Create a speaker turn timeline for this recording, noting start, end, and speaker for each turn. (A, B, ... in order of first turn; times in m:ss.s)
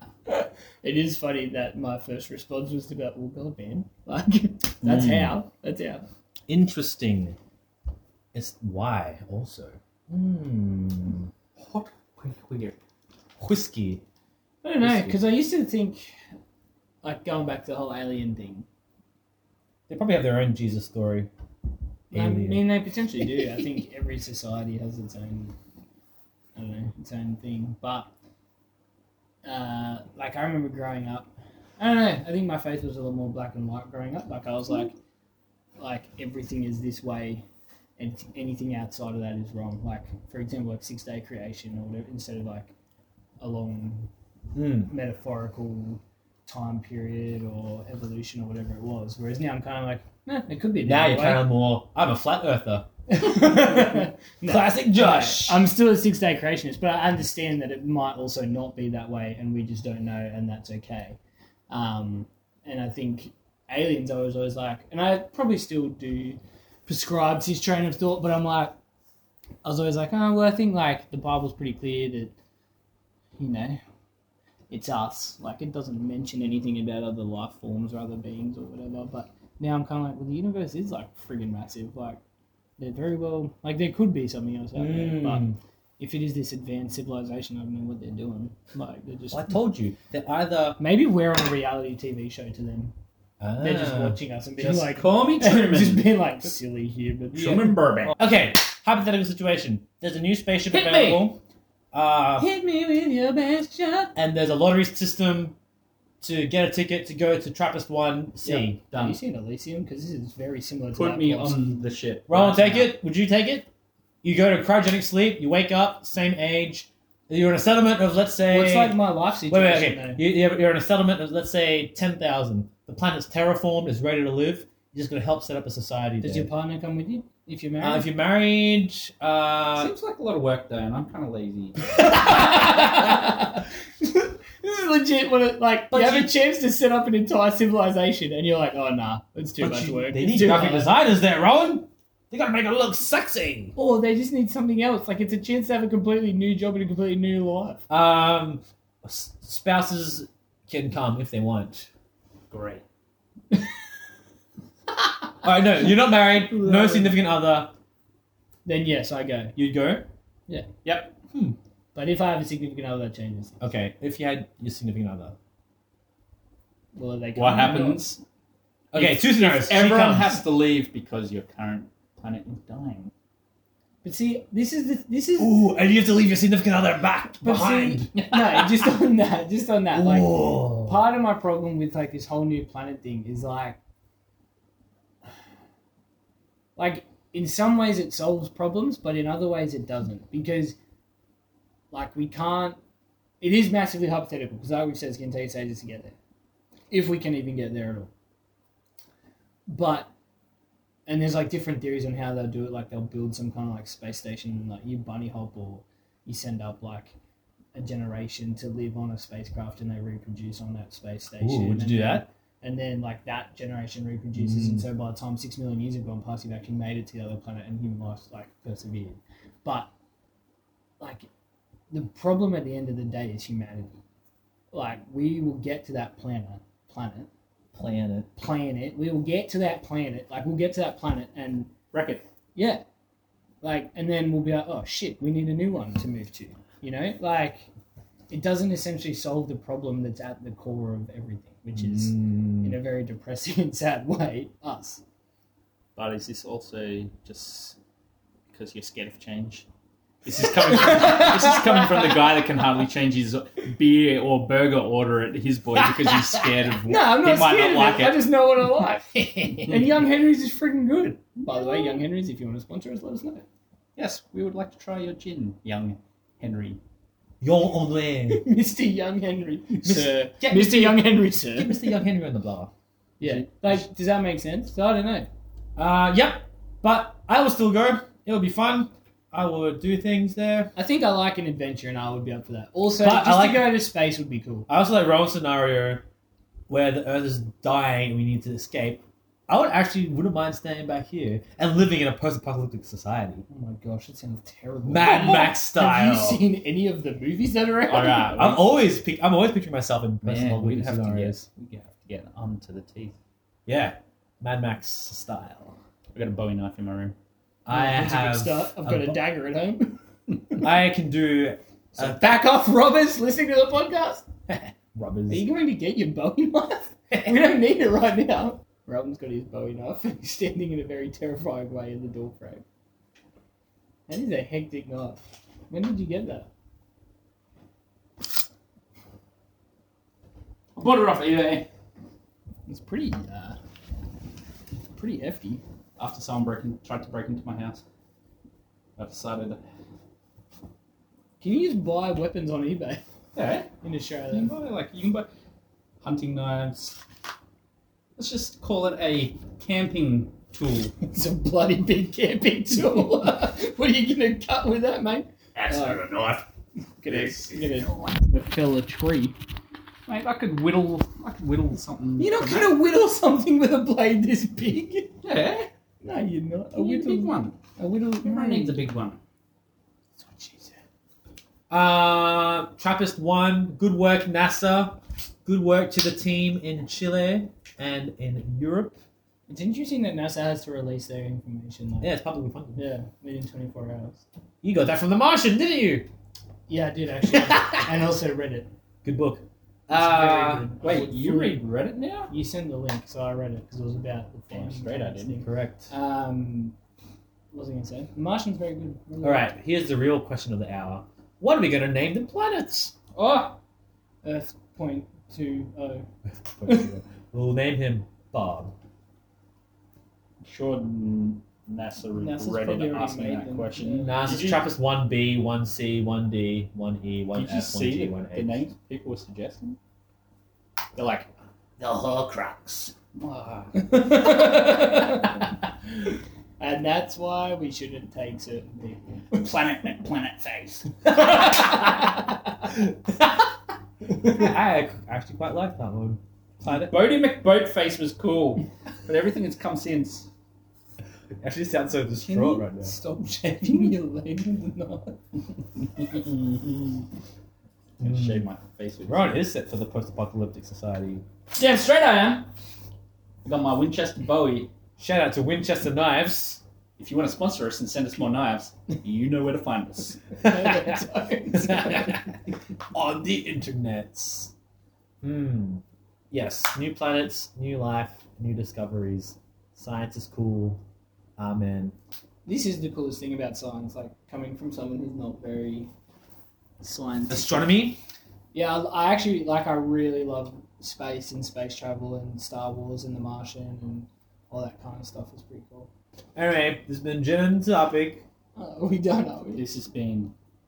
0:00.3-0:06.0 A
0:04.8-0:05.4 B
0:06.5-0:07.4 B
0:08.3-0:11.3 B
0:11.6-0:12.8 C
0:13.4-0:14.0 B
0:14.6-0:16.1 A
0:14.8-0:15.2 B
0:17.0-0:18.7 A
0:19.9-0:21.3 B
0:22.1-0:22.6 B
0:22.1-0:25.6 A
0:26.6-0:28.1 A
0:29.4-0:35.0 A
0:35.8-0:37.4 A
0:38.0-0:42.7 A
0:43.4-0:44.1 A
0:44.5-0:44.9 B
0:44.9-0:51.5 A
0:50.8-0:55.6 B
0:53.1-1:01.2 A
1:01.7-1:08.8 A
1:09.6-1:12.4 A
1:13.4-1:13.8 A
1:14.7-1:22.2 A
1:22.8-1:29.6 A
1:24.8-1:25.6 B
1:29.3-1:30.8 B
1:30.8-1:32.9 A
1:33.4-1:34.2 B
1:33.6-1:37.7 A
1:34.6-1:36.1 C
1:37.3-1:38.2 C
1:38.1-1:41.4 B
1:40.7-1:41.4 A
1:41.9-1:42.5 B
1:42.4-1:44.1 A
1:44.2-1:45.6 B
1:46.2-1:48.8 B
1:48.5-1:51.6 A
1:48.8-1:49.2 C
1:50.9-1:53.0 C
1:52.3-1:53.7 B
1:54.2-2:06.5 B
1:58.5-2:00.2 A
2:06.2-2:08.1 A
2:07.8-2:09.9 B
2:09.8-2:11.8 C
2:12.0-2:21.0 A
2:15.9-2:16.3 B
2:19.6-2:23.7 B
2:23.8-2:27.8 A
2:27.9-2:31.9 B
2:32.5-2:32.8 C
2:35.4-2:37.7 B
2:36.3-2:37.1 A
2:38.7-2:39.6 A
2:39.6-2:40.1 B
2:40.8-2:41.1 C
2:41.3-2:41.6 B
2:42.0-2:43.6 A
2:43.6-2:45.4 B
2:47.0-2:48.1 A
2:47.4-2:48.2 C
2:48.9-2:50.4 B
2:48.9-2:53.1 C
2:54.0-2:55.6 A
2:55.4-2:58.9 B
2:57.4-3:03.8 A
2:59.9-3:01.0 B
3:06.8-3:10.8 A
3:11.9-3:12.8 A
3:13.4-3:16.2 A
3:16.9-3:18.1 A
3:19.7-3:20.1 A
3:21.1-3:27.2 A
3:27.7-3:39.9 A
3:31.4-3:32.3 B
3:34.4-3:34.8 B
3:41.0-3:41.3 A
3:41.9-3:44.0 A
3:44.7-3:47.3 A
3:47.7-3:48.3 B
3:48.4-3:51.7 A
3:51.9-3:52.2 C
3:52.6-3:52.8 A
3:53.6-3:57.7 A
3:58.3-4:05.0 A
4:01.8-4:02.8 B
4:06.0-4:07.8 C
4:08.5-4:09.7 C
4:10.2-4:18.3 C
4:10.6-4:12.0 A
4:15.8-4:16.5 B
4:16.9-4:23.4 A
4:19.2-4:19.8 B
4:24.0-4:26.8 C
4:27.4-4:28.5 B
4:28.3-4:32.0 A
4:29.8-4:32.7 B
4:33.2-4:35.3 A
4:35.8-4:40.7 B
4:40.8-4:44.7 A
4:42.9-4:43.9 B
4:44.7-4:46.1 B
4:46.7-4:53.4 B
4:53.5-4:58.5 A
4:54.8-4:56.4 B
4:57.9-4:58.8 C
4:58.4-5:01.4 B
5:00.2-5:03.2 C
5:03.7-5:05.8 B
5:06.1-5:07.2 C
5:07.6-5:09.2 B
5:07.7-5:10.6 A
5:10.6-5:12.4 B
5:11.9-5:14.2 A
5:14.5-5:15.5 B
5:15.3-5:22.6 A
5:24.1-5:26.5 A
5:30.8-5:31.7 C
5:32.7-5:33.6 A
5:34.9-5:35.6 A
5:36.0-5:37.8 C
5:39.0-5:39.6 C
5:41.4-5:43.0 A
5:43.3-5:43.7 C
5:43.8-5:44.5 A
5:44.3-5:45.3 C
5:46.0-5:47.0 C
5:48.2-5:50.9 C
5:51.0-5:56.0 A
5:55.6-5:56.5 C
5:57.0-5:59.4 A
5:57.1-5:57.9 C
6:00.1-6:02.8 C
6:02.2-6:05.2 A
6:05.2-6:05.7 C
6:06.0-6:08.8 A
6:06.8-6:07.6 C
6:08.2-6:09.2 C
6:10.2-6:10.8 A
6:11.7-6:19.0 B
6:19.5-6:22.1 A
6:22.0-6:22.8 B
6:22.8-6:24.2 A
6:24.6-6:26.1 B
6:26.7-6:28.7 A
6:27.4-6:27.9 B
6:29.0-6:29.5 B
6:29.9-6:32.3 C
6:29.9-6:31.6 A
6:32.3-6:36.8 A
6:34.5-6:35.4 C
6:35.4-6:35.9 B
6:37.5-6:39.5 A
6:39.2-6:42.9 B
6:43.2-6:43.6 A
6:44.2-6:46.1 A
6:46.6-6:48.7 B
6:46.6-6:46.9 A
6:50.4-6:54.7 C
6:52.2-6:54.2 A
6:54.0-6:58.6 B
6:57.3-6:59.8 C
7:01.8-7:02.9 B
7:03.1-7:04.1 C
7:03.8-7:05.4 A
7:06.6-7:09.4 A
7:09.3-7:10.9 C
7:12.8-7:13.1 B
7:14.2-7:17.0 B
7:16.7-7:20.3 C
7:21.4-7:22.9 B
7:22.2-7:25.2 A
7:26.0-7:27.0 C
7:28.0-7:29.4 C
7:28.0-7:28.5 B
7:29.1-7:31.2 B
7:31.5-7:32.5 A
7:33.4-7:34.7 C
7:35.0-7:36.6 B
7:37.0-7:40.2 C
7:40.4-7:42.2 A
7:41.6-7:42.2 B
7:42.9-7:44.5 B
7:45.2-7:50.8 B
7:51.4-7:52.0 B
7:52.5-7:55.9 A
7:56.8-7:57.7 A
7:57.3-7:58.0 B
7:58.5-8:05.9 A
8:06.4-8:08.2 B
8:08.6-8:09.6 A
8:09.6-8:10.3 C